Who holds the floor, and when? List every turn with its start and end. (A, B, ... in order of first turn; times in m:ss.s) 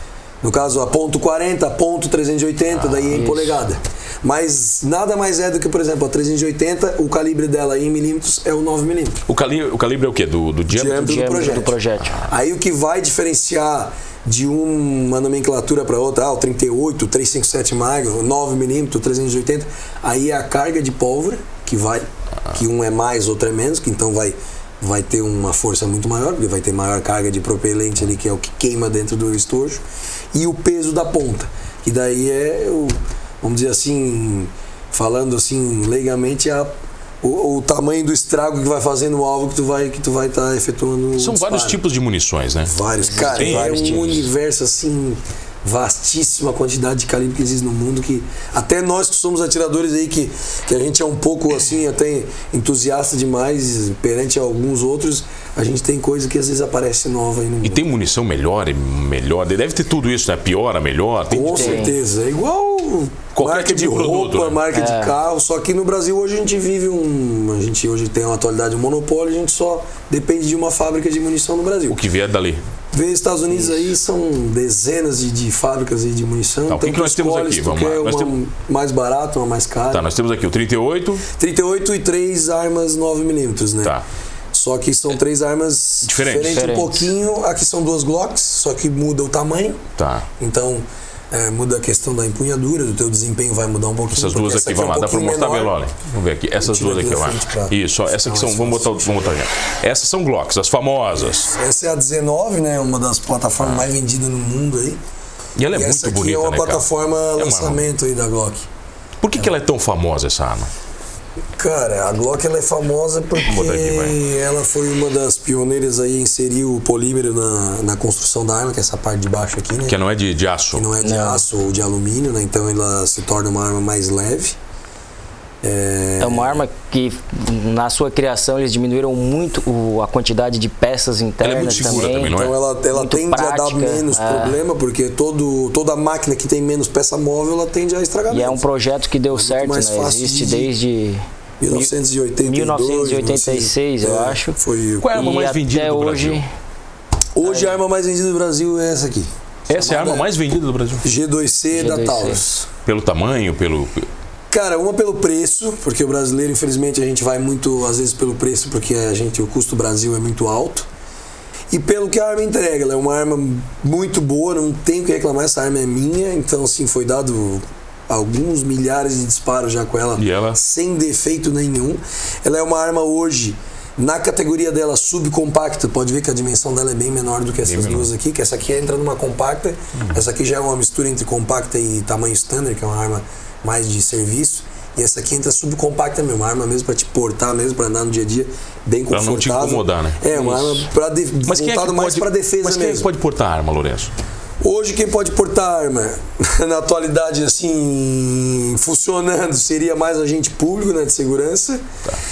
0:00.4-0:09.2 A
0:02.8-0:03.2 B
0:03.1-0:03.6 C
0:09.3-0:11.2 B
0:10.7-0:41.8 A
0:10.9-0:12.2 C
0:41.2-0:44.2 B
0:42.6-0:57.8 A
0:43.0-0:44.2 C
0:57.6-1:01.9 B
1:01.3-1:12.0 A
1:01.4-1:01.9 C
1:03.3-1:04.6 B
1:04.7-1:05.1 C
1:11.9-1:12.6 B
1:12.9-1:20.1 A
1:13.5-1:13.8 C
1:16.7-1:18.3 B
1:19.9-1:21.2 B
1:21.3-1:23.9 A
1:24.5-1:29.8 A
1:26.0-1:26.7 B
1:26.4-1:27.1 C
1:30.0-1:30.3 B
1:30.4-1:35.8 A
1:34.1-1:41.5 B
1:36.6-1:39.4 A
1:41.5-1:45.0 A
1:43.6-1:43.9 B
1:45.6-1:47.8 B
1:45.7-1:48.7 A
1:49.2-1:50.7 B
1:51.6-2:00.0 A
1:53.4-1:54.2 B
1:59.9-2:00.9 B
2:00.7-2:04.6 A
2:01.0-2:01.4 C
2:05.6-2:06.6 A
2:06.2-2:12.4 C
2:11.4-2:12.6 B
2:11.7-2:18.6 A
2:12.9-2:14.6 C
2:18.3-2:21.9 C
2:19.3-2:20.7 A
2:21.6-2:25.2 A
2:22.4-2:24.6 C
2:25.0-2:26.4 B
2:25.1-2:26.5 C
2:27.3-2:30.3 A
2:27.4-2:27.7 C
2:29.7-2:31.1 B
2:31.0-2:32.6 A
2:31.7-2:32.6 C
2:32.8-2:34.1 B
2:34.5-2:40.9 A
2:41.7-3:13.1 A
2:50.2-2:50.6 B
2:57.6-2:58.1 B
3:09.1-3:10.8 B
3:11.5-3:14.1 B
3:14.6-3:21.8 A